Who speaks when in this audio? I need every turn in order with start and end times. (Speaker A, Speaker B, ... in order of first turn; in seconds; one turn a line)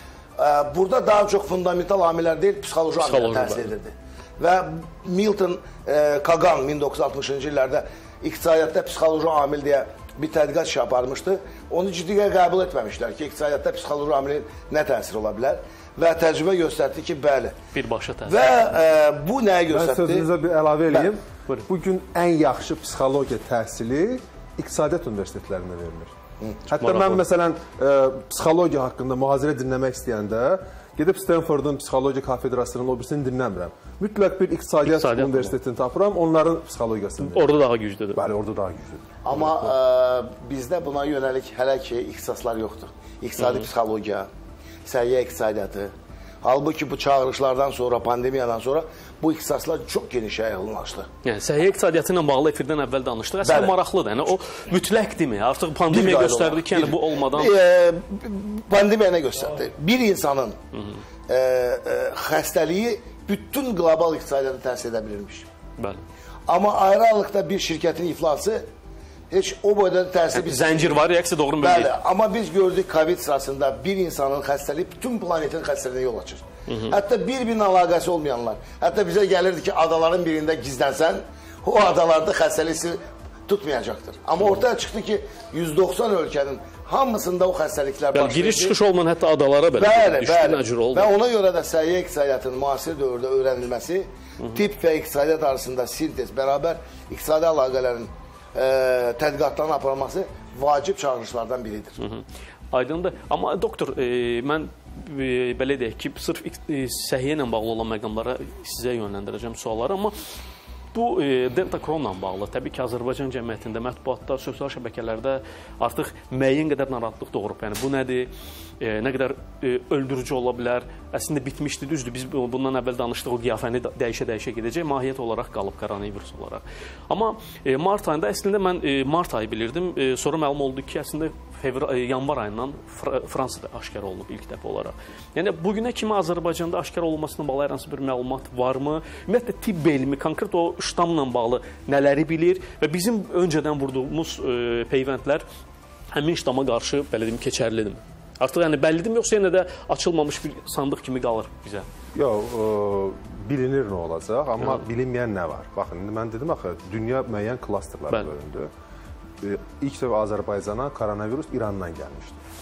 Speaker A: 0.4-17.6
Speaker B: 3.0-3.7
Speaker B: 17.7-18.4
Speaker A: 18.2-20.3
Speaker C: 19.7-26.1
Speaker C: 26.7-37.5
Speaker B: 26.7-27.2
Speaker B: 34.9-35.5
Speaker B: 37.2-38.2
Speaker C: 38.1-39.1
Speaker A: 39.2-44.3
Speaker A: 44.9-51.1
Speaker B: 51.2-57.5
Speaker A: 53.4-53.7
Speaker A: 55.9-60.6
Speaker A: 61.3-65.5
Speaker B: 65.8-66.0
Speaker A: 66.5-68.7
Speaker A: 69.3-71.0
Speaker B: 70.3-71.9
Speaker A: 71.6-88.8
Speaker B: 76.7-76.9
Speaker B: 88.1-91.1
Speaker A: 89.7-102.0
Speaker B: 102.0-110.1
Speaker B: 110.9-118.3
Speaker B: 118.8-145.4
Speaker B: 146.1-151.9
Speaker C: 152.1-158.7
Speaker C: 159.4-162.4